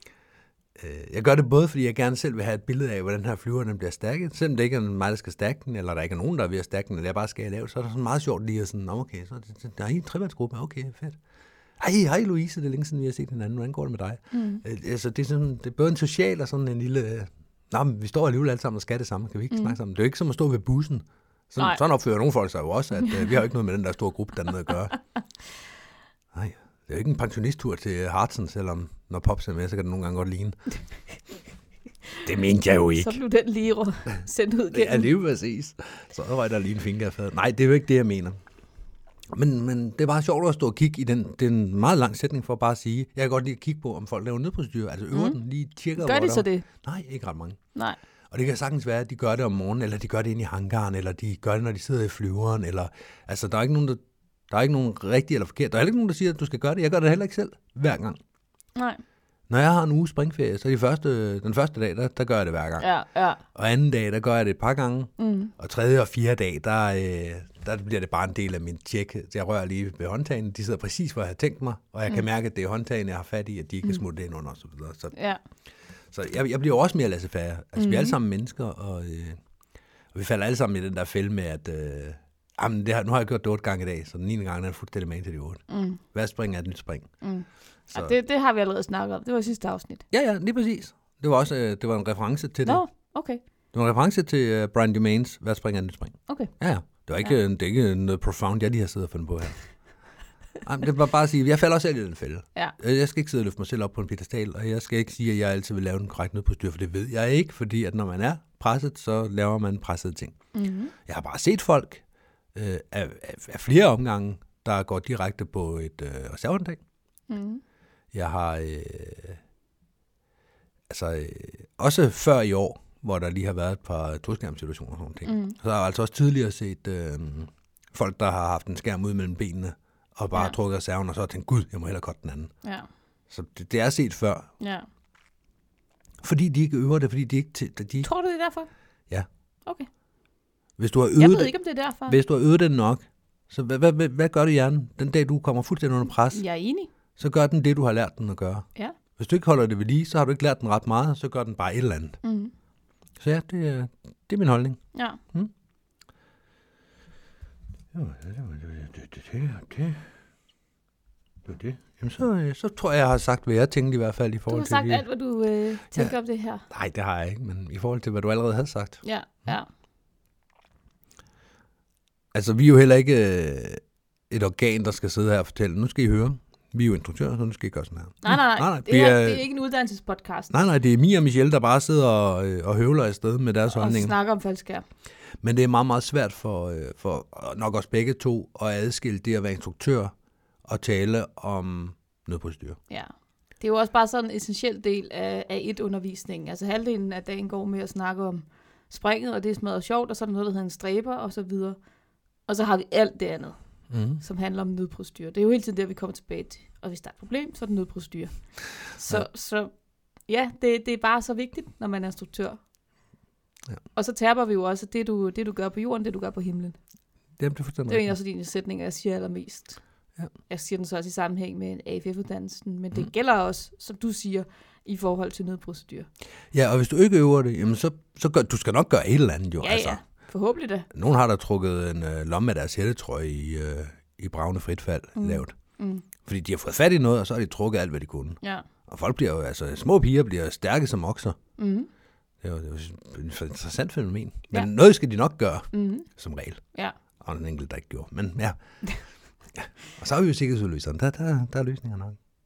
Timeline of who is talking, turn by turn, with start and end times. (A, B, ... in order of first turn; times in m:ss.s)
0:00.8-0:11.2 A
0:11.8-0:25.0 A
0:14.3-0:14.6 B
0:19.5-0:19.8 B
0:26.3-0:30.6 A
0:32.2-0:33.2 A
0:33.0-0:35.1 B
0:34.7-0:38.4 A
0:39.3-0:47.6 A
0:45.1-0:45.4 B
0:46.0-0:46.7 B
0:48.3-0:58.2 A
0:58.8-0:59.0 B
0:59.5-1:02.9 A
1:02.8-1:03.4 B
1:03.5-1:15.2 A
1:05.2-1:05.5 B
1:15.1-1:15.4 B
1:16.1-1:19.4 A
1:17.8-1:18.2 B
1:20.1-1:27.1 A
1:25.7-1:26.0 B
1:27.2-1:30.0 B
1:30.1-1:32.8 A
1:32.6-1:33.4 B
1:33.7-1:39.6 A
1:36.3-1:36.5 B
1:40.6-1:50.4 A
1:50.5-1:50.9 B
1:51.1-1:52.0 A
1:52.6-1:56.8 A
1:57.3-1:57.6 B
1:58.1-1:59.4 A
2:00.9-2:12.5 A
2:05.2-2:05.6 B
2:12.6-2:12.9 B
2:13.3-2:14.5 A
2:14.6-2:14.9 B
2:16.2-2:18.1 A
2:18.0-2:18.7 B
2:20.8-2:21.6 A
2:21.2-2:22.2 B
2:22.1-2:26.4 A
2:26.3-2:26.9 B
2:27.2-2:32.2 A
2:32.2-2:32.5 B
2:33.2-2:34.8 A
2:34.9-2:35.2 B
2:37.9-2:40.1 A
2:41.5-2:45.0 A
2:44.5-2:46.6 B
2:46.7-2:49.6 A
2:49.0-2:49.7 B
2:52.3-2:59.4 A
2:58.2-3:00.5 B
3:00.5-3:04.2 A
3:03.7-3:04.8 B
3:05.4-3:10.1 A
3:10.6-3:12.8 A
3:12.9-3:21.8 B
3:22.5-3:23.6 B
3:23.9-3:24.2 A
3:24.2-3:29.7 B
3:30.3-3:32.6 B
3:34.0-3:36.8 B
3:37.4-3:38.1 A
3:37.9-3:39.8 B
3:40.5-3:46.1 B
3:46.5-3:50.0 A
3:49.6-3:50.9 B
3:50.9-3:55.6 A
3:55.2-3:56.1 B
3:56.2-4:01.4 A
4:01.6-4:01.9 B
4:02.4-4:06.6 A
4:05.7-4:06.1 B
4:07.2-4:08.6 A
4:09.6-4:12.2 A